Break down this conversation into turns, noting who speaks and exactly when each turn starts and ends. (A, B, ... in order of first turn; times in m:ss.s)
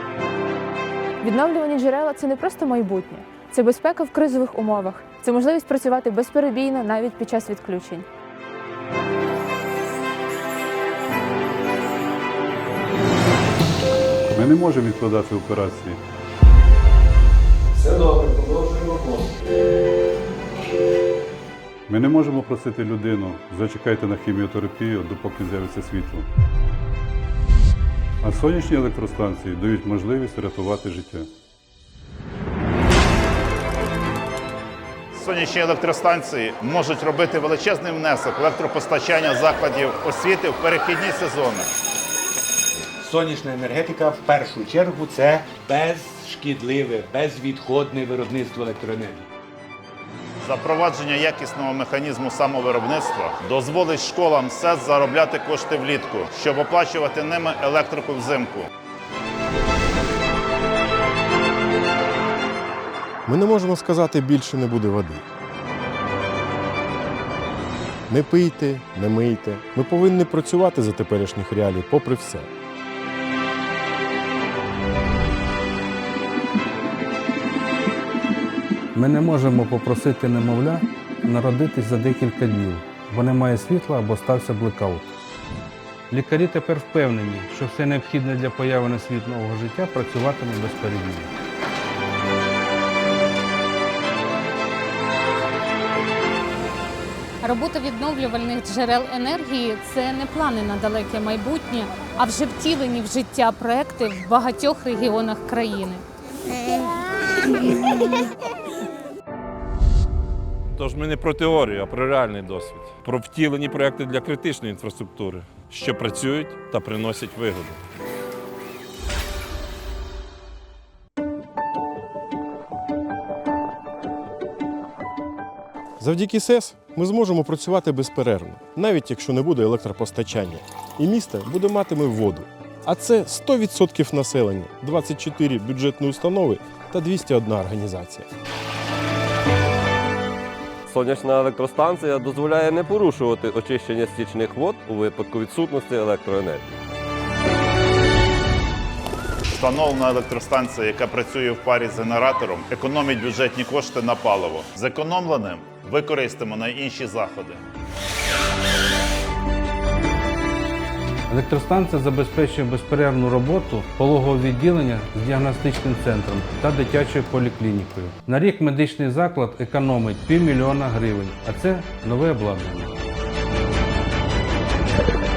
0:01.2-0:08.0 A
0:14.3-0:16.0 B
0:21.9-0:26.3 B
0:28.2-0:31.3 B
0:35.1-0:41.6 C
0:43.1-0:45.4 D
0:46.4-0:49.1 D
0:50.4-0:58.6 C
1:03.2-1:05.2 E
1:08.1-1:12.5 E
1:18.9-1:25.1 F
1:26.1-1:31.3 F
1:37.4-1:46.0 G
1:50.8-1:57.7 H
2:06.0-2:18.3 E
2:20.9-2:26.7 I
2:29.6-2:37.6 C
2:41.3-2:52.9 F